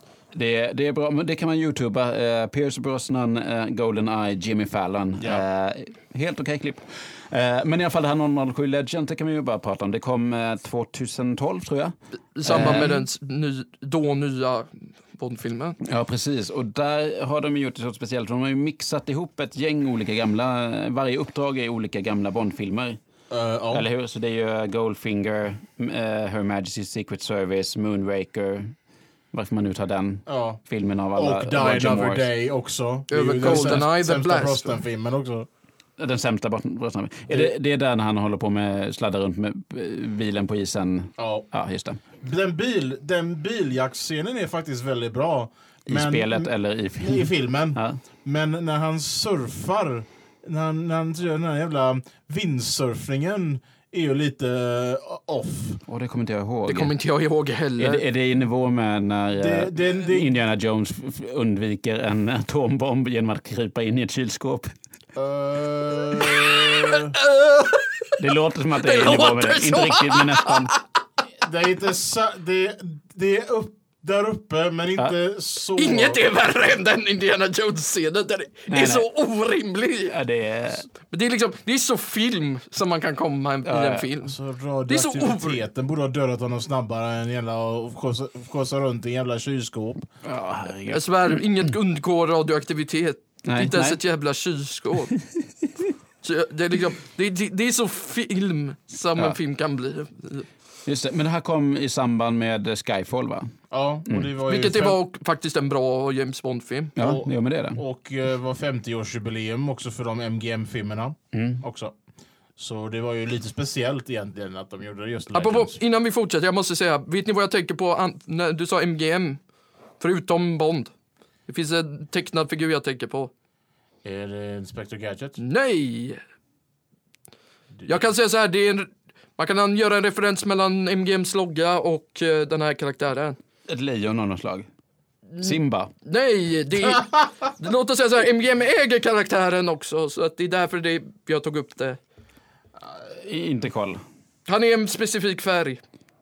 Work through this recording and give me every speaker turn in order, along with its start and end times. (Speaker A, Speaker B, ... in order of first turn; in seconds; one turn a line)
Speaker A: 0.3-13.0
Speaker B: 12.4-15.8
Speaker A: 15.8-23.0
Speaker C: 23.3-23.9
Speaker A: 23.7-28.8
Speaker A: 29.3-32.3
Speaker C: 30.3-30.6
Speaker C: 31.1-35.5
Speaker B: 33.1-34.8
Speaker A: 33.5-33.8
Speaker A: 36.0-42.0
Speaker C: 41.2-41.5
Speaker C: 42.2-55.8
Speaker A: 45.9-48.0
Speaker A: 55.9-56.9
Speaker B: 56.7-58.0
Speaker A: 57.8-64.7
Speaker C: 59.4-60.3
Speaker C: 65.2-67.2
Speaker B: 66.4-68.2
Speaker A: 68.2-70.8
Speaker B: 68.8-70.8
Speaker C: 71.4-76.2
Speaker B: 75.8-80.2
Speaker A: 78.7-79.1
Speaker A: 80.1-80.9
Speaker B: 81.0-84.4
Speaker A: 83.7-84.1
Speaker C: 84.2-90.1
Speaker B: 84.9-85.6
Speaker A: 90.2-91.4
Speaker B: 90.9-95.2
Speaker A: 93.5-94.0
Speaker B: 96.2-100.5
Speaker A: 100.9-103.5
Speaker C: 103.7-105.0
Speaker B: 104.5-106.9
Speaker A: 107.0-107.8
Speaker C: 107.0-111.9
Speaker A: 111.3-111.6
Speaker C: 112.6-115.8
Speaker B: 115.3-119.4
Speaker B: 120.0-120.9
Speaker B: 121.5-123.3
Speaker C: 124.0-125.4
Speaker B: 125.4-126.2
Speaker B: 127.9-133.4
Speaker A: 133.7-134.7
Speaker B: 135.3-142.0
Speaker A: 135.4-135.9
Speaker A: 143.1-144.0
Speaker B: 144.5-145.8